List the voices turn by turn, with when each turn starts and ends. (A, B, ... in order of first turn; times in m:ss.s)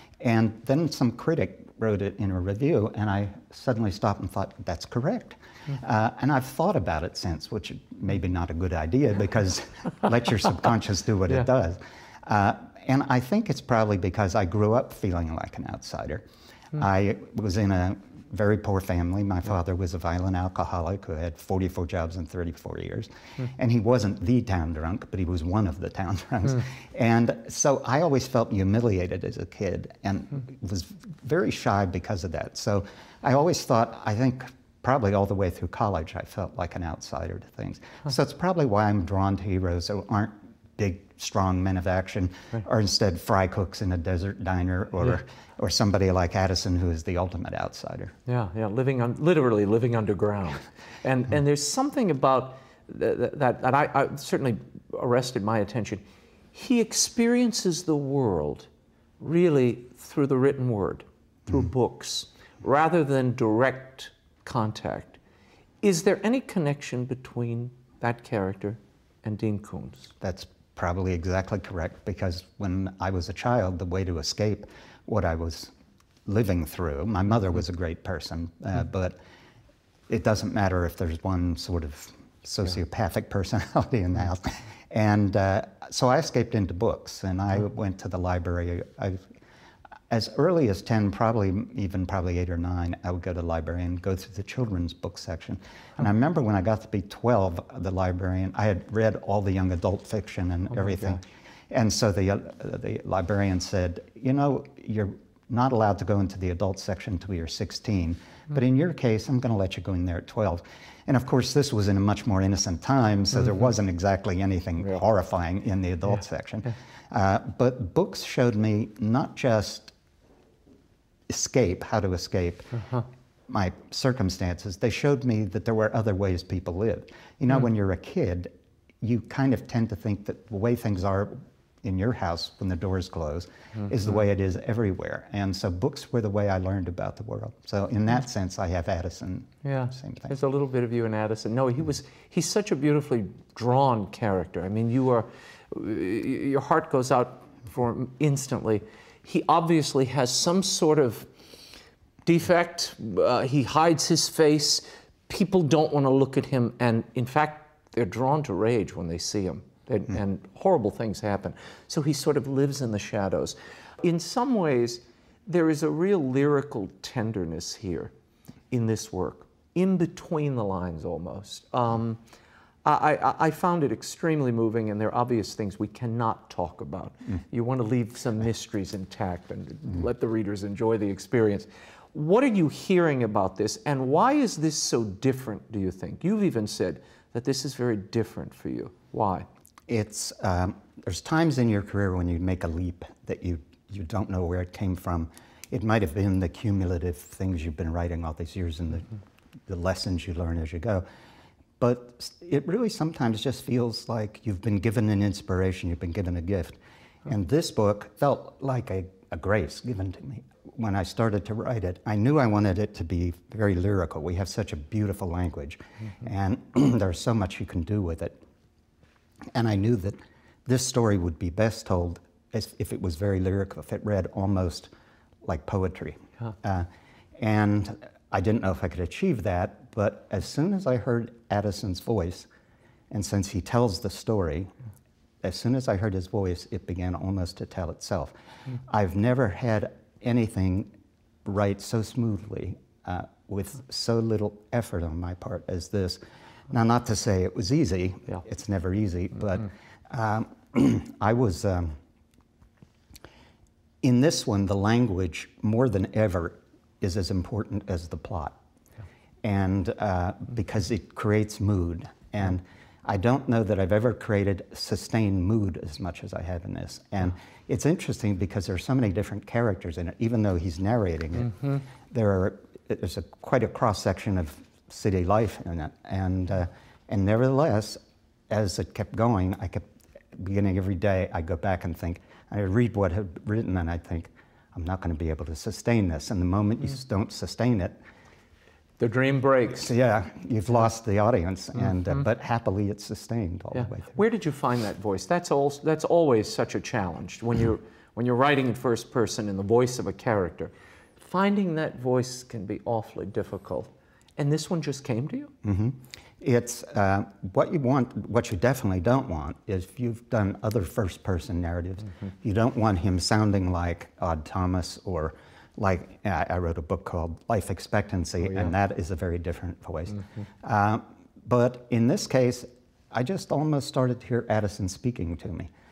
0:00.2-0:48.1 A
0:48.3-0:58.7 B
0:59.2-1:05.2 B
1:05.8-1:10.1 B
1:10.2-1:15.7 A
1:16.3-1:19.2 A
1:20.1-1:29.2 A
1:30.1-1:59.9 A
1:40.8-1:41.2 B
1:54.8-1:55.0 B
2:01.3-2:02.7 A
2:02.8-2:03.0 B
2:03.5-2:20.4 A
2:13.8-2:14.2 B
2:19.6-2:31.3 B
2:32.3-2:48.1 B
2:48.7-2:52.2 B
2:52.8-3:09.5 B
3:09.9-3:19.1 A
3:19.7-3:21.0 A
3:21.8-3:38.4 A
3:39.5-3:44.9 A
3:45.4-3:52.5 A
3:53.1-3:54.7 A
3:55.4-3:58.3 A
3:58.9-4:00.9 A
4:01.4-4:06.2 A
4:06.7-4:12.0 A
4:14.0-4:18.6 A
4:19.4-4:48.0 A
4:49.0-4:49.9 B
4:49.7-4:54.2 A
4:53.7-5:05.5 B
5:05.6-5:25.7 A